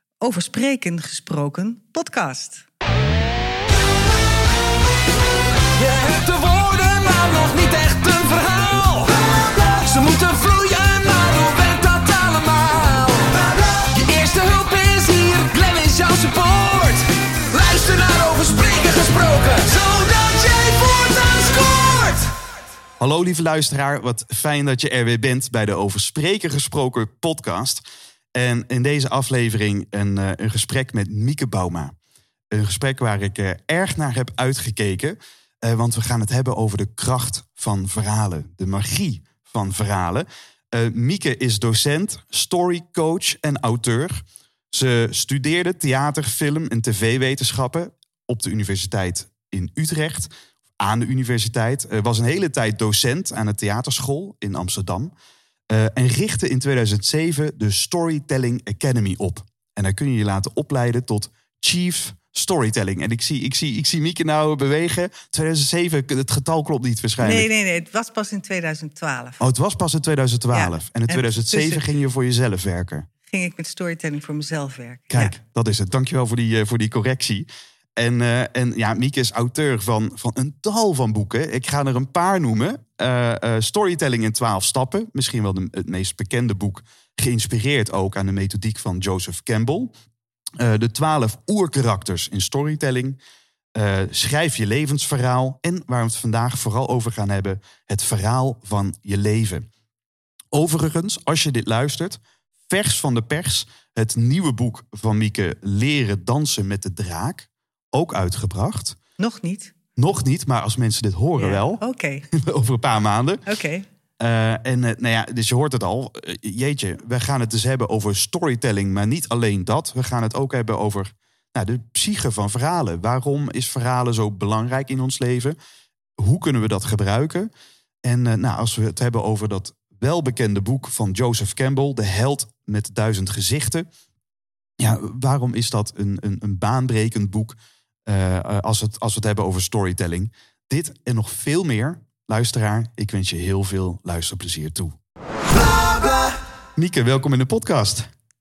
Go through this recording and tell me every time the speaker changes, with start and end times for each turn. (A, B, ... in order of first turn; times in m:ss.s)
0:00.2-0:02.6 A
0:05.8-0:22.4 B
0:23.0-0:31.9 C
0:32.5-0:55.1 C
0:55.7-1:07.5 C
1:07.2-1:09.4 A
1:09.4-1:13.1 C
1:10.5-1:11.8 A
1:13.3-1:15.4 A
1:15.1-1:29.9 C
1:30.6-1:33.2 C
1:33.7-1:39.6 C
1:40.5-1:49.0 C
1:49.2-1:49.7 A
1:50.0-1:53.4 C
1:51.4-1:52.2 A
1:53.4-1:53.8 A
1:54.2-2:05.6 C
2:06.2-2:07.5 C
2:08.0-2:13.8 C
2:14.8-2:24.9 C
2:26.8-2:28.1 C